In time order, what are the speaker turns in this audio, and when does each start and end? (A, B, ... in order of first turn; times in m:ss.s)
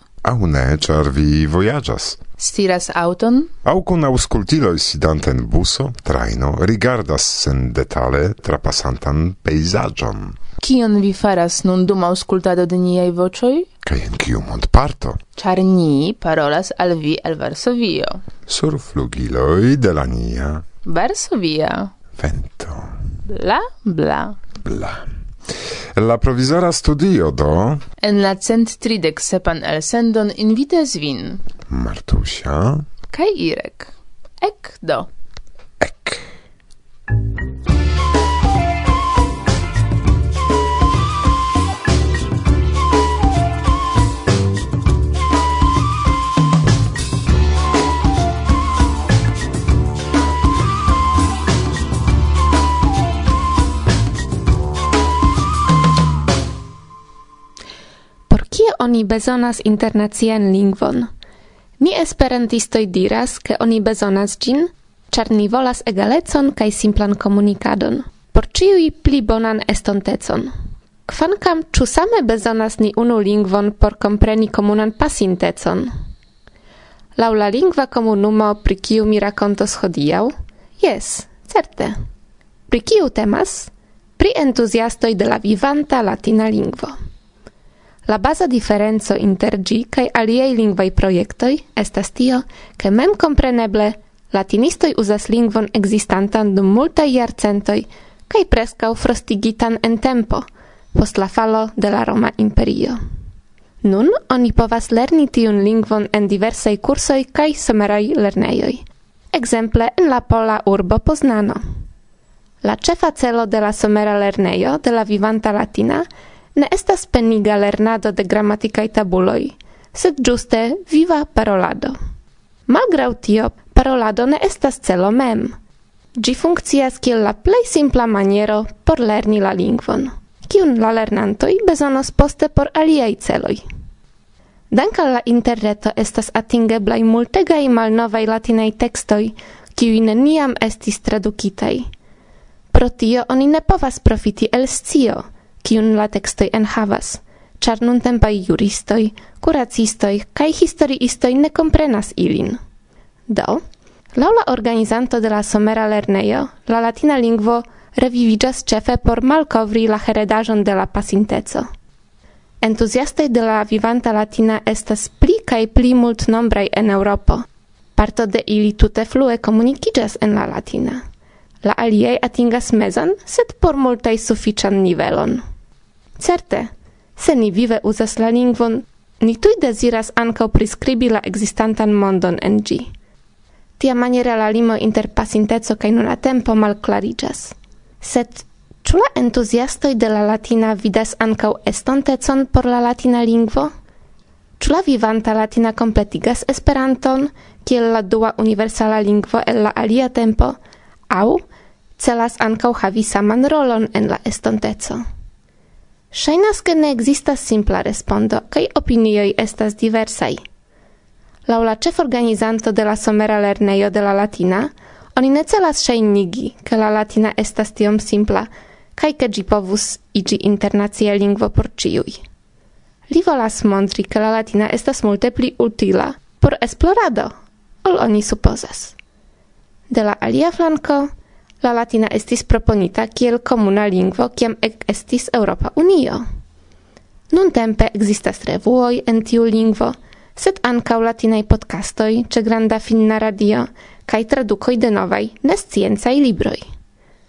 0:00.2-0:02.2 A
0:02.4-0:03.5 B
0:03.6-0:10.4 A
0:10.6-0:13.7 B
0:13.8-0:15.2 A
0:15.4-0:18.2 B
0:18.5-0:20.6 A
0:20.8-0:21.9 B
0:22.1-0:22.9 A
0:23.3-0:24.4 B
0:24.6-0:27.8 A
0:28.0-0:31.4 B
0:31.7-0:32.8 A
0:33.1-0:33.9 B
0:34.4-0:35.1 B
0:35.8-0:36.3 A
0:58.3-1:01.1 C
1:01.8-1:10.5 C
1:11.1-1:15.9 C
1:17.2-1:22.0 C
1:22.7-1:26.9 C
1:28.1-1:43.0 C
1:43.8-1:48.8 C
1:49.3-1:51.6 C
1:52.6-2:02.0 C
2:02.7-2:05.6 C
2:06.2-2:13.6 C
2:14.7-2:21.8 C
2:22.7-2:32.6 C
2:33.3-2:33.6 C
2:34.2-2:41.7 C
2:42.6-2:47.4 C
2:48.0-2:51.0 C
2:51.6-2:55.4 C
2:56.2-3:02.9 C
3:03.8-3:13.7 C
3:14.6-3:20.6 C
3:21.1-3:21.4 C
3:22.0-3:25.0 C
3:26.1-3:30.4 C
3:31.5-3:42.2 C
3:43.1-3:47.3 C
3:47.8-3:49.0 C
3:49.9-3:51.1 C
3:51.6-3:56.2 C
3:57.3-4:06.6 C